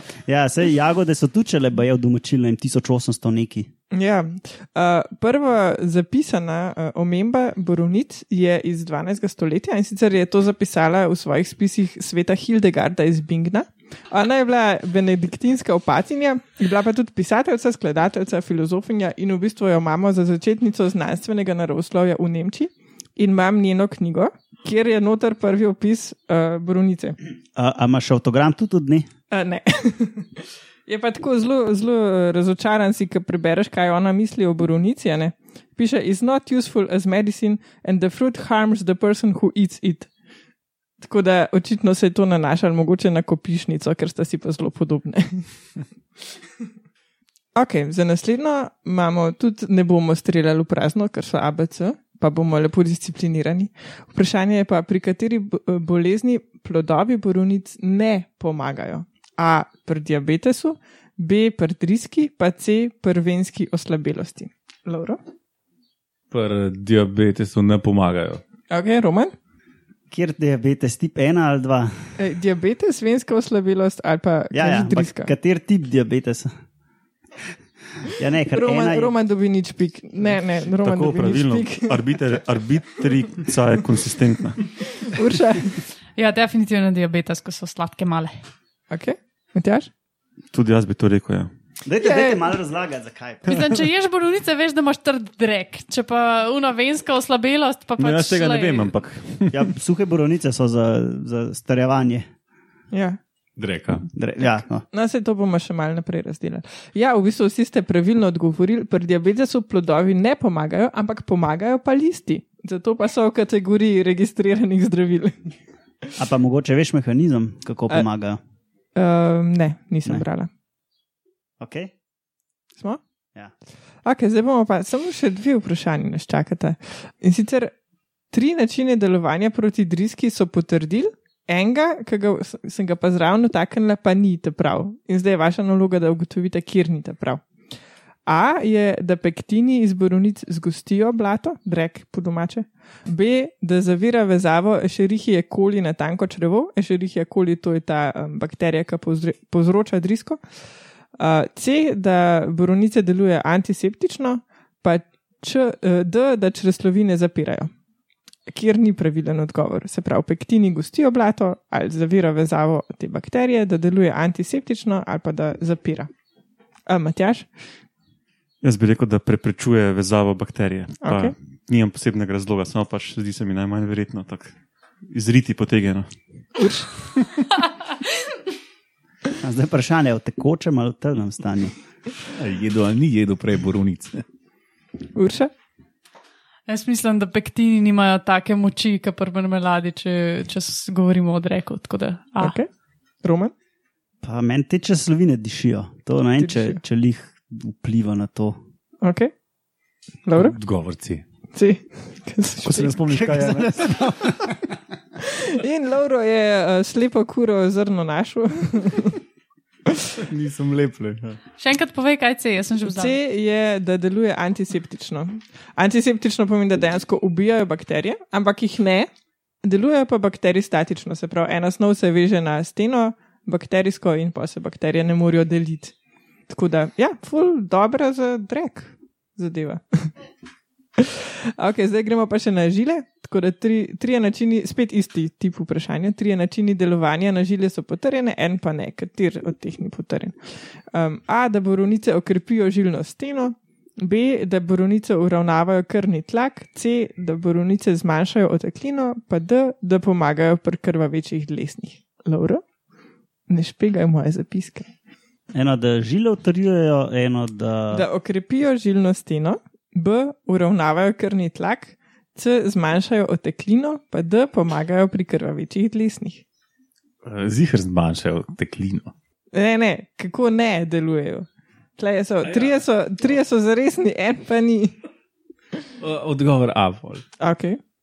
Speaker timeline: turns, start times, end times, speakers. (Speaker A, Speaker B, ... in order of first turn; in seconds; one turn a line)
Speaker A: 0.3-3.7
Speaker B: 3.9-27.1
Speaker A: 27.6-29.1
Speaker B: 29.3-30.3
Speaker B: 30.9-40.1
Speaker B: 41.0-45.5
Speaker B: 47.5-65.2
Speaker C: 66.3-68.4
Speaker B: 68.7-69.3
Speaker A: 70.1-72.1
Speaker B: 72.2-75.3
Speaker A: 74.5-76.5
Speaker A: 78.1-79.1
Speaker B: 78.5-81.9
Speaker D: 80.8-84.7
Speaker B: 85.0-85.8
Speaker E: 86.2-88.3
Speaker B: 88.9-89.9
Speaker D: 90.5-91.5
Speaker A: 91.8-93.6
Speaker B: 92.0-92.4
Speaker E: 93.5-98.9
Speaker D: 98.0-99.7
Speaker A: 99.5-102.3
Speaker B: 102.9-103.2
Speaker C: 103.6-104.1
Speaker A: 104.1-104.8
Speaker B: 104.9-115.3
Speaker A: 116.2-118.4
Speaker B: 119.0-120.5
Speaker A: 121.6-121.9
Speaker B: 124.0-127.7
Speaker B: 128.3-137.4
Speaker B: 138.3-150.4
Speaker B: 151.2-157.7
Speaker B: 158.5-166.1
Speaker B: 166.9-167.5
Speaker D: 168.6-176.1
Speaker B: 171.0-171.3
Speaker B: 176.6-176.9
Speaker A: 179.4-181.7
Speaker C: 182.4-184.2
Speaker B: 185.1-185.5
Speaker E: 186.7-192.6
Speaker B: 192.4-192.7
Speaker B: 193.2-193.5
Speaker A: 194.2-198.6
Speaker B: 196.4-196.8
Speaker B: 199.0-199.3
Speaker B: 200.2-200.6
Speaker C: 200.3-201.2
Speaker B: 201.5-202.9
Speaker D: 202.6-203.9
Speaker A: 203.1-204.7
Speaker B: 205.4-209.2
Speaker C: 210.3-211.4
Speaker E: 211.6-213.2
Speaker B: 212.8-219.1
Speaker B: 219.6-225.9
Speaker B: 226.5-230.1
Speaker B: 231.0-252.6
Speaker B: 253.5-254.9
Speaker A: 255.5-258.1
Speaker B: 257.9-266.4
Speaker C: 267.2-269.1
Speaker B: 269.5-274.9
Speaker C: 276.0-277.2
Speaker B: 277.4-277.8